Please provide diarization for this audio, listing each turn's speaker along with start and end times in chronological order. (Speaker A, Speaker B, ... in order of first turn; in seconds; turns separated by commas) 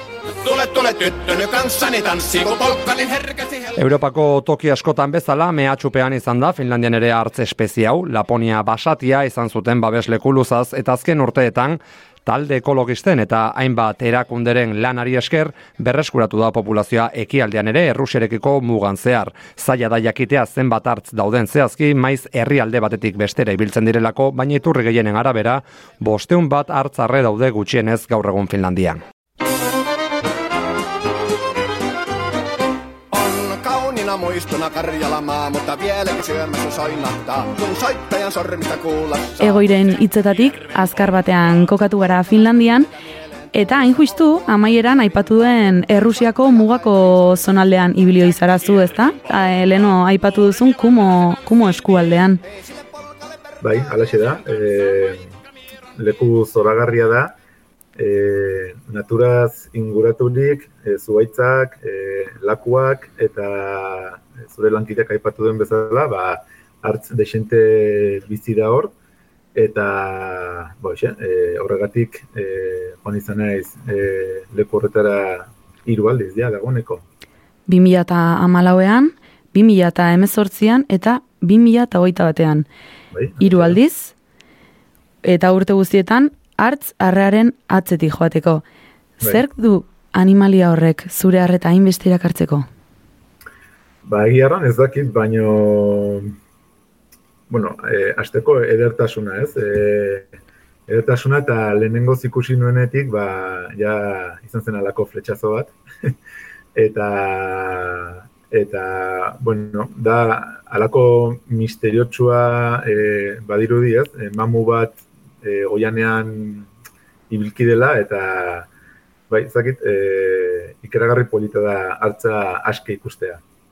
Speaker A: 0.4-3.8, Speaker B: 3.8-29.0, Speaker C: 33.1-39.6, Speaker D: 39.4-42.9, Speaker D: 43.5-52.4, Speaker E: 53.6-55.3, Speaker E: 56.0-57.4, Speaker E: 58.0-68.9, Speaker E: 69.5-77.0, Speaker D: 77.7-82.7, Speaker E: 83.1-83.8, Speaker D: 83.4-84.1, Speaker D: 85.2-88.6, Speaker D: 89.2-92.7, Speaker E: 94.0-96.3, Speaker E: 97.5-100.3, Speaker E: 100.9-106.2, Speaker E: 106.8-116.7, Speaker E: 117.3-118.7, Speaker E: 119.3-123.4